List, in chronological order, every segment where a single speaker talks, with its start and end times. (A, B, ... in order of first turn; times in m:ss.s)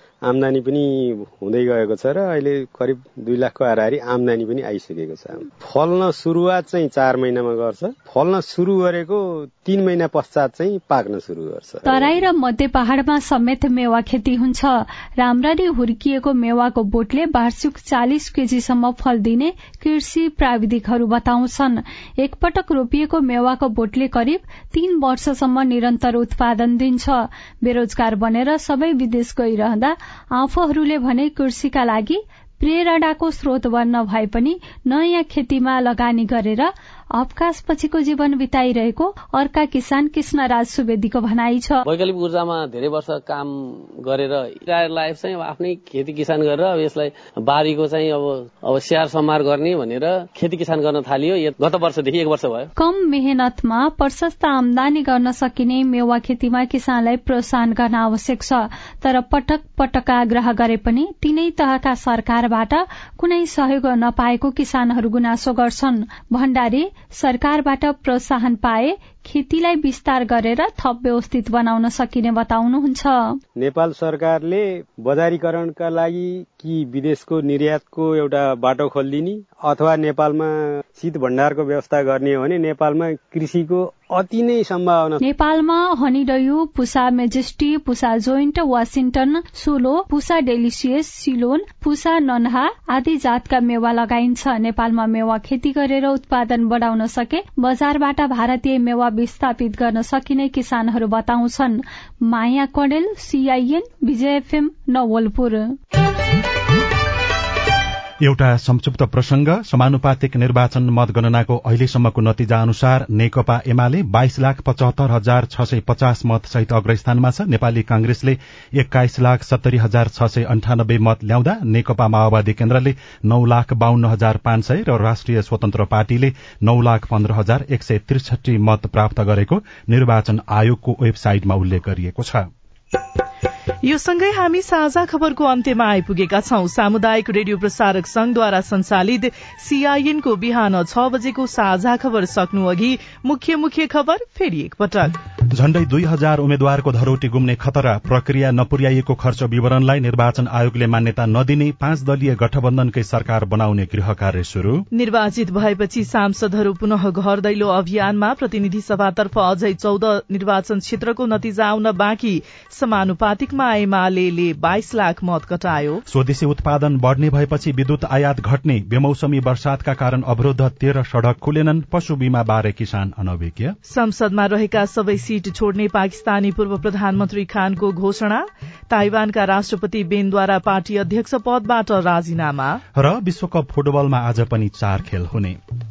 0:00.2-0:12.3 A
0:11.8-0:41.8 B
0:41.8-0:52.7 C
0:52.8-1:13.4 B
1:13.6-1:25.2 A
1:25.2-1:45.8 B
1:48.2-2:12.5 D
2:13.8-2:25.2 E
2:25.5-2:34.9 D
2:34.9-2:46.0 E
2:46.1-2:53.8 D
2:53.9-3:02.8 E
3:03.0-3:05.6 D